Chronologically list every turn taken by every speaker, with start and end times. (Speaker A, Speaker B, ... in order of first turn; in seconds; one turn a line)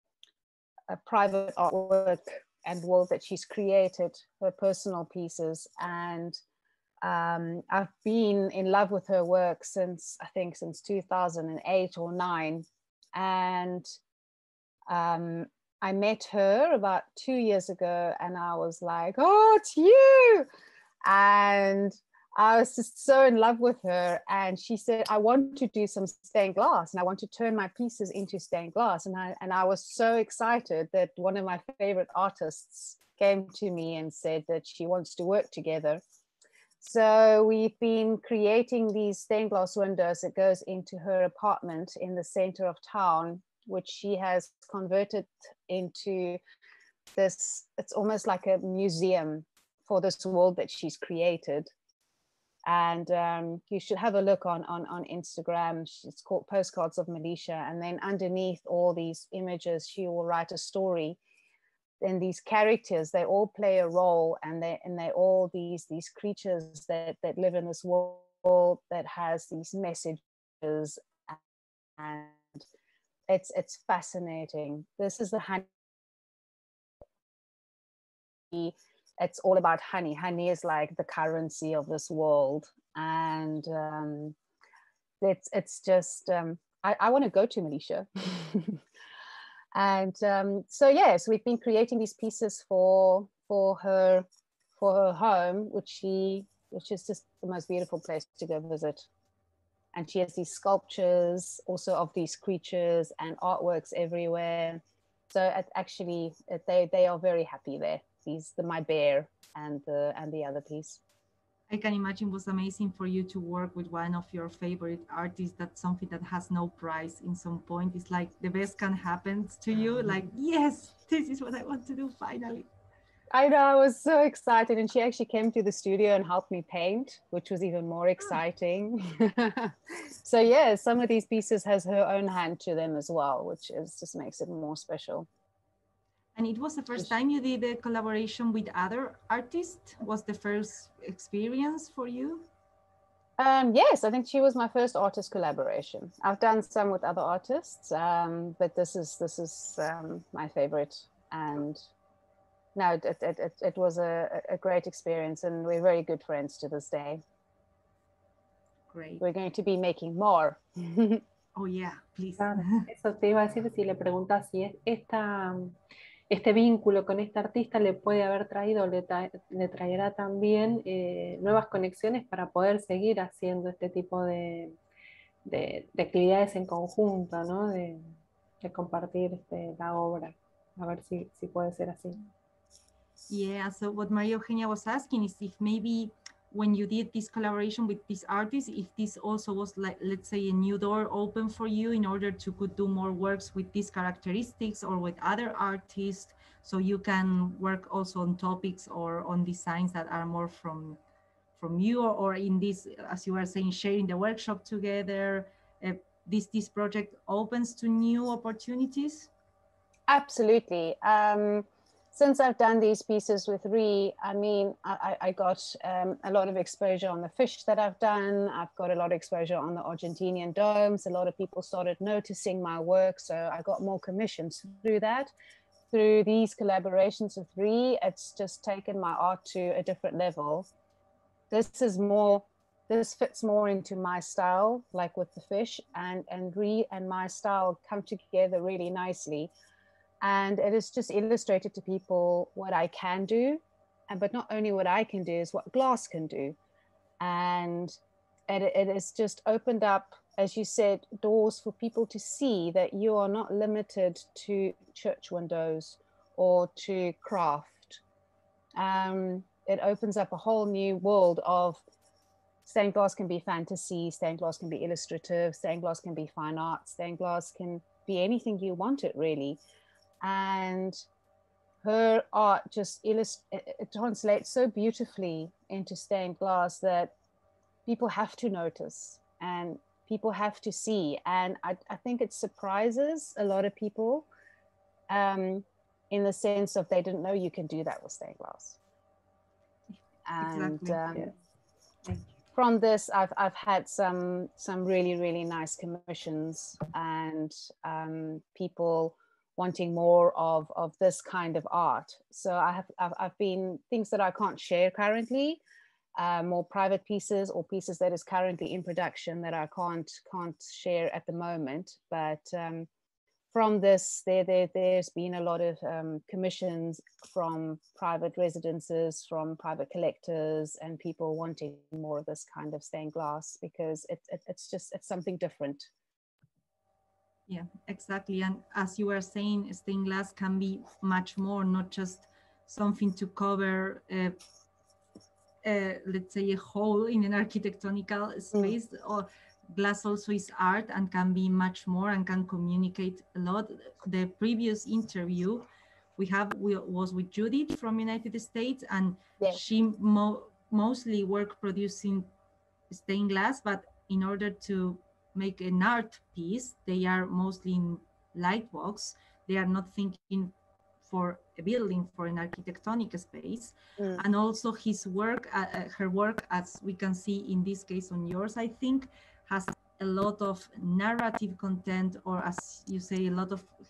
Speaker A: 0.9-6.4
Speaker A: 7.0-13.9
Speaker A: 14.9-20.5
Speaker A: 21.0-36.0
Speaker A: 36.8-46.4
Speaker A: 47.1-51.7
Speaker A: 52.7-61.2
Speaker A: 62.0-71.4
Speaker A: 72.0-72.6
Speaker A: 73.3-75.7
Speaker A: 78.5-84.3
Speaker A: 85.2-88.8
Speaker A: 89.7-94.2
Speaker A: 94.8-99.1
Speaker A: 99.9-111.0
Speaker B: 111.7-122.7
Speaker A: 123.3-135.3
Speaker B: 136.3-142.5
Speaker A: 143.4-151.8
Speaker A: 152.7-157.2
Speaker B: 158.9-159.2
Speaker A: 159.2-161.2
Speaker B: 161.6-162.9
Speaker C: 162.4-165.8
Speaker C: 166.3-174.8
Speaker C: 175.4-182.2
Speaker B: 183.3-201.0
Speaker B: 201.6-209.3
Speaker A: 210.1-225.3
Speaker A: 225.9-230.7
Speaker A: 231.5-239.5
Speaker A: 240.2-246.6
Speaker A: 247.2-258.0
Speaker A: 258.8-261.8
Speaker A: 262.6-269.6
Speaker A: 270.2-271.0
Speaker A: 271.8-277.1
Speaker A: 277.9-284.3
Speaker A: 285.1-288.8
Speaker B: 289.9-291.0
Speaker A: 290.2-291.3
Speaker A: 292.5-305.6
Speaker A: 306.1-312.9
Speaker A: 313.5-325.9
Speaker B: 327.5-334.4
Speaker B: 335.6-352.3
Speaker B: 352.9-373.7
Speaker A: 364.0-364.2